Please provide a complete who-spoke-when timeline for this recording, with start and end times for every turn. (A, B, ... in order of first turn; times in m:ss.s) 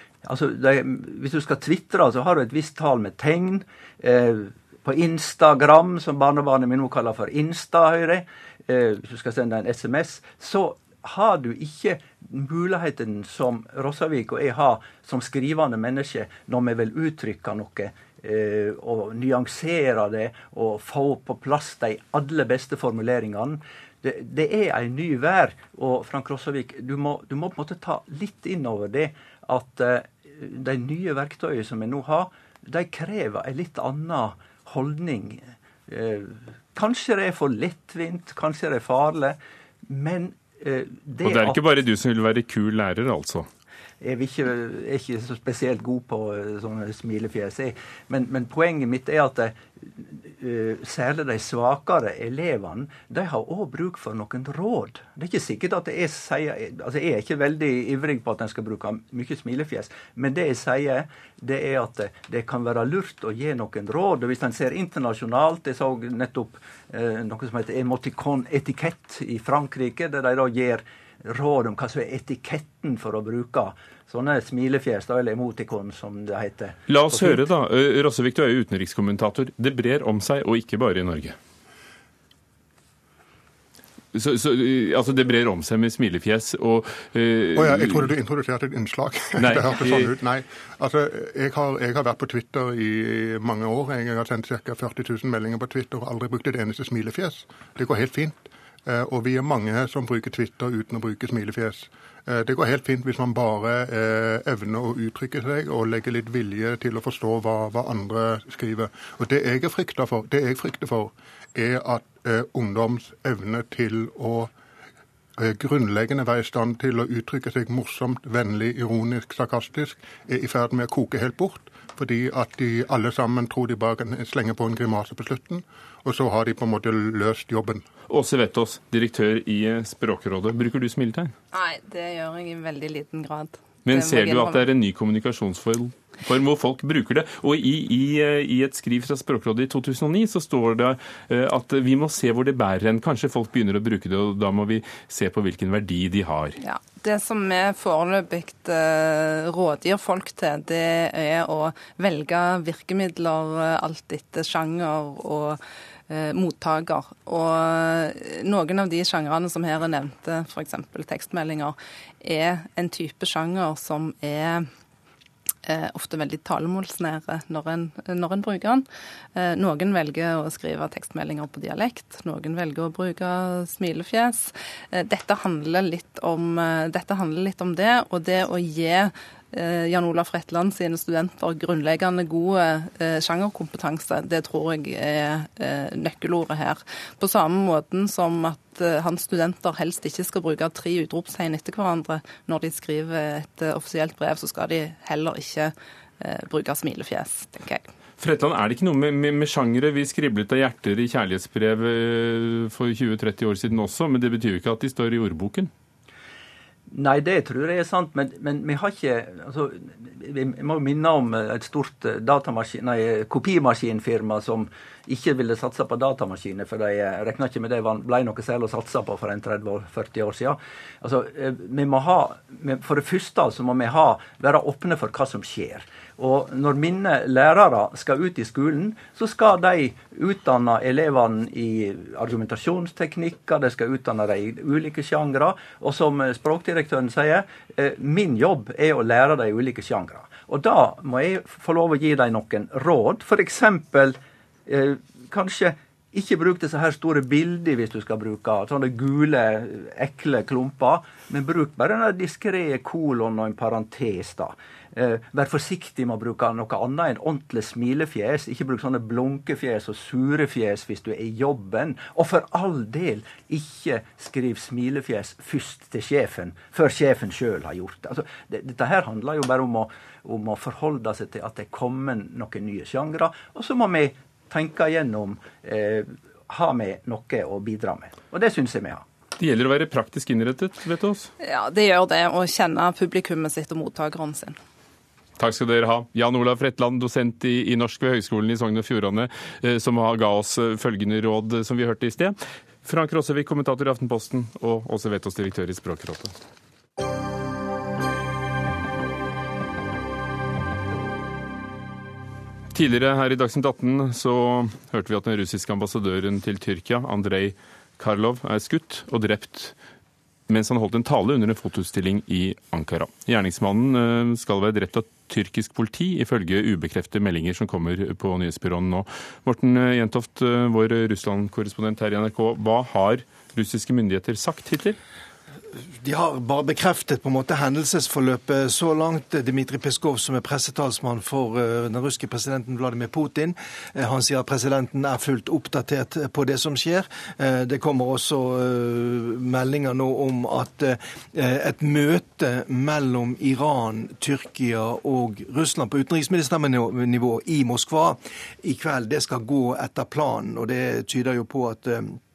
0:00.2-0:41.6 A
0:41.2-0:43.5 B
0:44.0-1:17.4 A
1:16.9-1:21.4 B
1:24.1-1:28.1 B
1:27.5-1:54.5 C
1:29.4-1:30.1 B
1:55.4-2:07.8 C
2:08.1-2:11.3 B
2:11.5-2:14.7 D
2:13.8-2:26.6 B
2:26.6-2:44.7 D
2:45.6-3:17.9 D
3:18.2-3:25.7 B
3:26.9-4:39.0 A
4:39.4-4:41.3 B
4:41.4-4:44.6 D
4:45.4-4:56.4 B
5:02.7-5:09.7 B
5:10.5-5:25.0 B
5:26.0-5:52.2 E